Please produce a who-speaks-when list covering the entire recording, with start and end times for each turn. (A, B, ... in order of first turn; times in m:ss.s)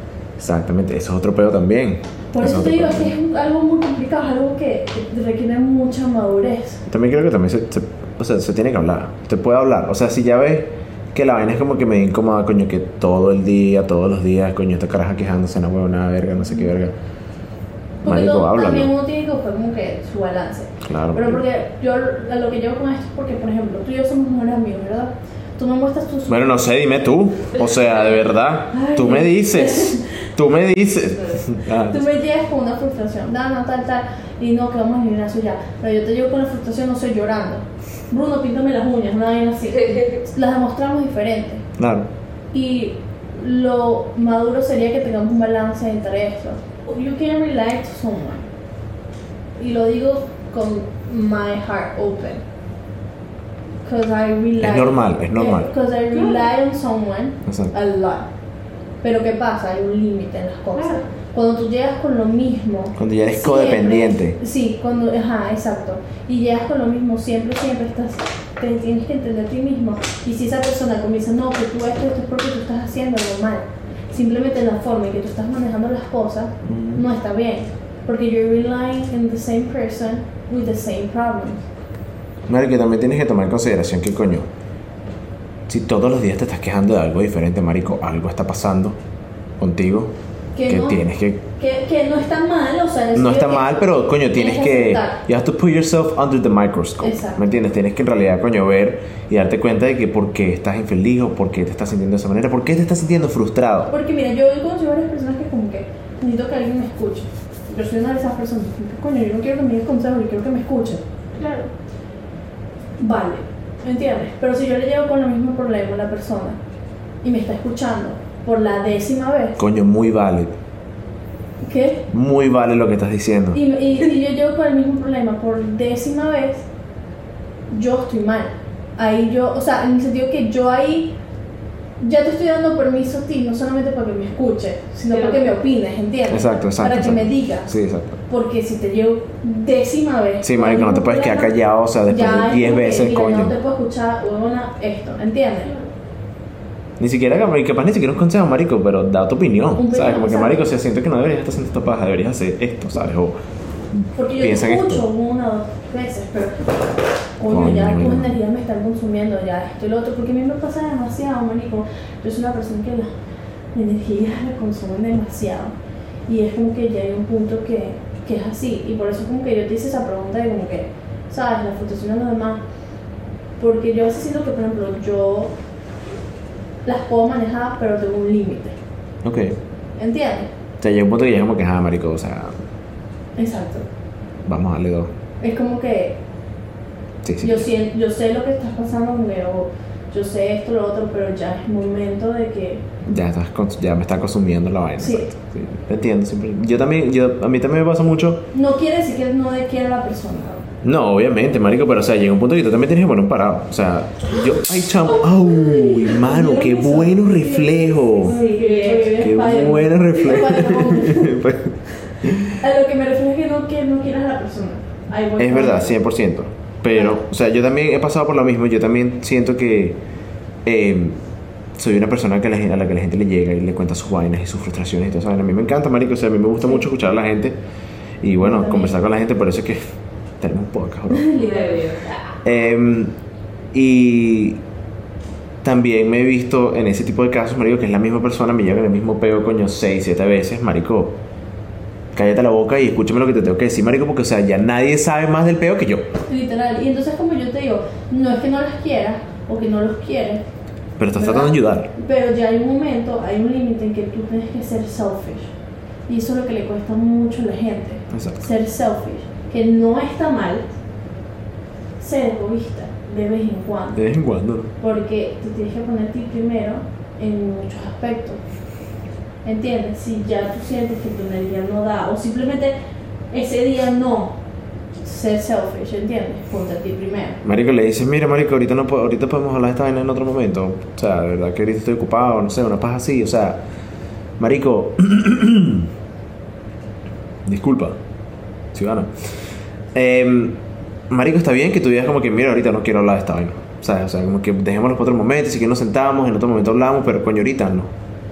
0:00.4-0:03.1 A
0:02.3-0:06.8 B
0:06.9-0:16.9 A
0:16.5-0:16.7 B
0:18.0-0:26.6 B
0:18.0-0:18.9 A
0:20.8-0:21.4 A
0:26.3-0:32.0 A
0:28.7-0:30.2 B
0:31.6-0:41.7 B
0:41.8-0:42.1 A
0:42.5-0:48.5 B
0:49.6-0:52.4 B
0:53.8-0:58.3 B
0:54.6-0:55.7 A
0:56.1-0:56.5 C
0:57.4-0:57.7 A
0:59.0-1:21.7 B
1:00.8-1:01.0 C
1:03.0-1:04.4 A
1:16.6-1:17.0 A
1:22.5-1:24.5 A
1:25.7-1:29.0 A
1:29.6-1:30.1 A
1:30.5-1:31.0 B
1:30.7-1:31.4 A
1:31.6-1:35.2 B
1:33.1-1:43.9 A
1:37.0-1:37.4 B
1:43.9-1:51.0 B
1:51.4-1:51.7 C
1:53.0-1:56.6 B
1:57.2-1:59.6 B
1:59.6-2:00.5 A
2:01.6-2:02.0 B
2:02.1-2:03.6 A
2:03.5-2:06.7 B
2:07.7-2:11.1 B
2:12.0-2:21.5 B
2:15.1-2:15.5 C
2:16.3-2:18.2 A
2:20.4-2:23.5 A
2:22.0-2:25.8 B
2:27.0-2:33.4 A
2:29.8-2:30.6 B
2:34.0-2:35.0 A
2:34.1-2:36.8 B
2:37.4-2:43.1 B
2:37.5-2:38.3 A
2:43.7-2:45.8 B
2:46.3-2:52.6 B
2:53.6-2:55.5 B
2:56.8-2:58.8 B
2:59.2-2:59.6 A
3:00.0-3:00.5 B
3:00.8-3:02.6 A
3:03.4-3:03.9 B
3:04.4-3:05.2 A
3:05.4-3:06.2 B
3:07.2-3:07.7 A
3:07.4-3:12.8 B
3:13.0-3:18.5 A
3:15.0-3:15.3 B
3:18.5-3:20.7 B
3:20.8-3:28.4 A
3:26.0-3:31.4 B
3:28.2-3:29.3 C
3:29.2-3:32.6 A
3:32.5-3:36.0 B
3:35.4-3:40.0 A
3:36.9-3:37.2 B
3:40.6-3:41.2 A
3:41.8-3:47.6 A
3:48.2-3:49.8 A
3:48.4-3:49.0 B
3:50.4-3:51.3 A
3:51.1-3:52.1 B
3:51.3-3:52.2 C
3:52.4-3:53.2 A
3:53.7-3:54.6 A
3:55.6-4:01.2 A
4:02.1-4:06.1 A
4:06.3-4:10.4 B
4:11.0-4:11.9 A
4:11.1-4:15.5 B
4:16.1-4:20.7 B
4:18.1-4:18.4 A
4:22.0-4:24.0 B
4:23.9-4:24.7 A
4:24.8-4:28.4 B
4:29.4-4:32.7 B
4:33.3-4:34.4 B
4:35.0-4:37.4 B
4:37.4-4:43.6 A
4:44.4-4:45.9 A
4:47.4-4:48.0 A
4:48.7-4:49.4 A
4:49.9-4:57.9 A